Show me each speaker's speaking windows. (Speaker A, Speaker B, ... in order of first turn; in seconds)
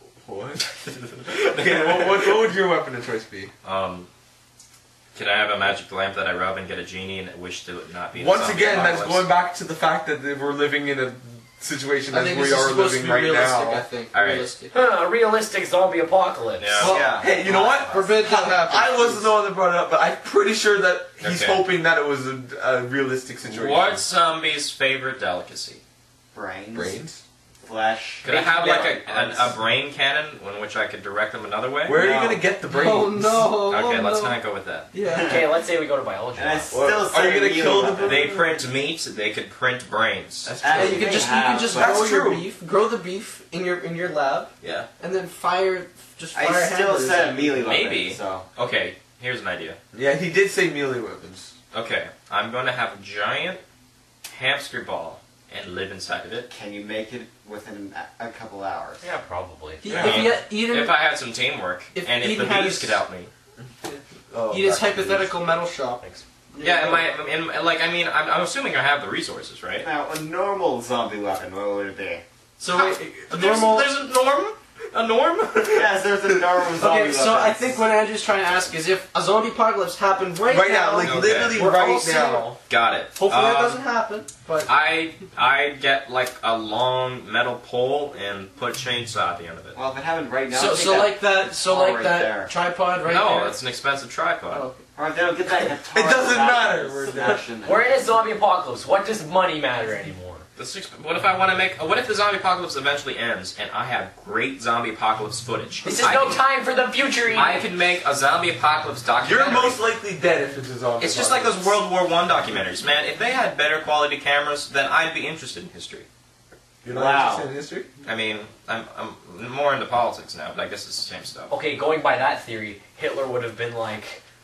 Speaker A: 0.2-0.7, 1.4-3.5, 8.1-13.8, 16.9-24.0, 26.7-27.2, 31.9-33.6, 36.7-38.3, 40.4-42.5, 49.9-51.5, 59.9-60.3, 64.3-65.3, 80.5-82.6, 95.9-97.4, 109.2-111.8, 116.8-117.9
Speaker B: 0.9-2.4, 3.6-4.1, 5.1-9.3, 14.1-14.5, 16.6-17.0, 21.2-21.6, 23.4-25.8, 28.2-32.0, 33.6-34.9, 38.0-40.5, 44.6-44.9, 47.6-49.8, 51.7-53.6, 54.3-56.5, 59.9-63.3, 66.6-69.9, 72.7-76.0, 81.0-81.7, 82.7-83.8, 84.7-89.8, 93.0-94.7, 100.6-106.4, 107.3-109.8, 111.0-116.1, 118.0-121.5
Speaker C: 12.1-14.7, 16.8-17.2, 17.9-19.3, 32.6-35.4, 40.7-47.6, 59.8-61.0, 61.9-63.0, 63.8-67.1, 72.6-73.9, 76.7-82.5, 83.1-84.7, 90.5-93.6, 94.5-94.8
Speaker D: 14.7-18.1, 35.2-36.8, 59.0-59.9, 97.6-100.4, 105.8-107.6, 121.5-124.2
Speaker E: 16.8-17.4, 26.3-27.0, 27.6-29.5, 31.9-32.5, 35.0-35.5, 36.4-38.3, 40.6-42.0, 46.3-48.4, 56.5-59.0, 69.8-72.2, 75.7-77.8, 89.7-92.5, 94.9-98.0, 116.9-117.5